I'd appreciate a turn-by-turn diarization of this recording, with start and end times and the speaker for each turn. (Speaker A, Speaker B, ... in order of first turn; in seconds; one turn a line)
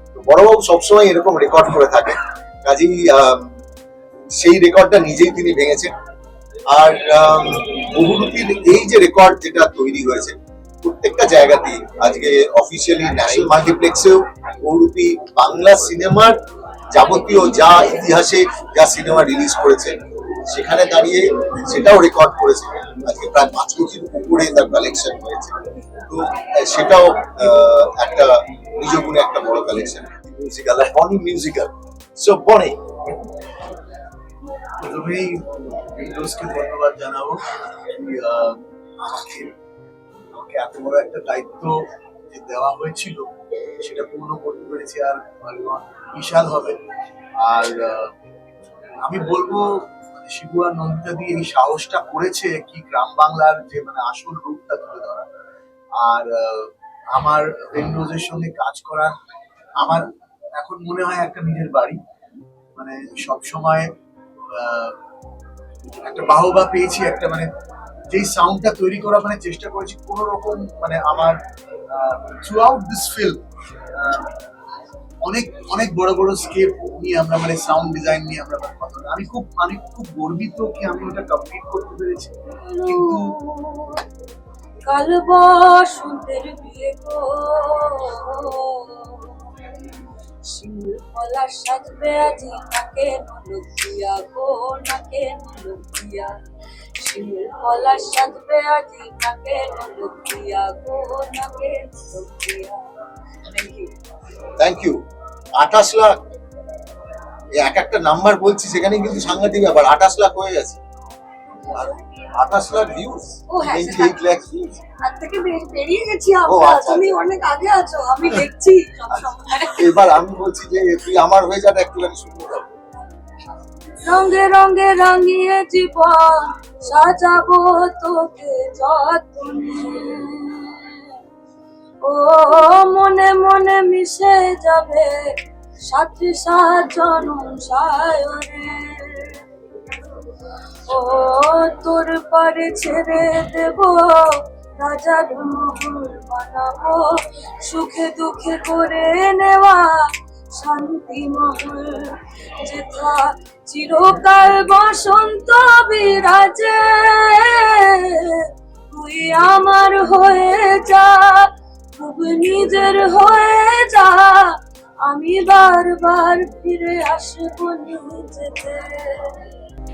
Speaker A: 0.1-3.5
Speaker A: 4.3-5.9
Speaker A: 6.7-16.4
Speaker A: 16.9-20.0
Speaker A: 20.5-25.6
Speaker A: 26.1-32.9
Speaker B: 34.8-35.4
Speaker B: 36.0-37.4
Speaker B: 37.9-39.5
Speaker B: 40.3-46.8
Speaker B: 47.4-48.1
Speaker B: 49.0-55.3
Speaker B: 56.0-59.1
Speaker B: 59.8-62.0
Speaker B: 62.8-63.9
Speaker B: 64.5-65.0
Speaker B: 66.0-67.5
Speaker B: 68.1-71.4
Speaker B: 71.9-73.4
Speaker B: 74.0-74.3
Speaker B: 75.2-82.3
Speaker C: 82.7-84.0
Speaker B: 82.9-83.3
Speaker C: 84.9-89.3
Speaker C: 90.5-96.3
Speaker C: 97.0-102.8
Speaker C: 103.5-103.9
Speaker A: 104.6-105.0
Speaker A: 105.6-106.2
Speaker A: 107.6-110.8
Speaker A: 111.8-114.8
Speaker C: 113.5-114.2
Speaker C: 115.0-120.0
Speaker A: 116.5-117.2
Speaker A: 119.8-122.7
Speaker C: 124.0-131.1
Speaker C: 132.1-135.3
Speaker C: 135.9-139.4
Speaker C: 140.9-150.0
Speaker C: 150.5-164.5
Speaker C: 165.1-169.4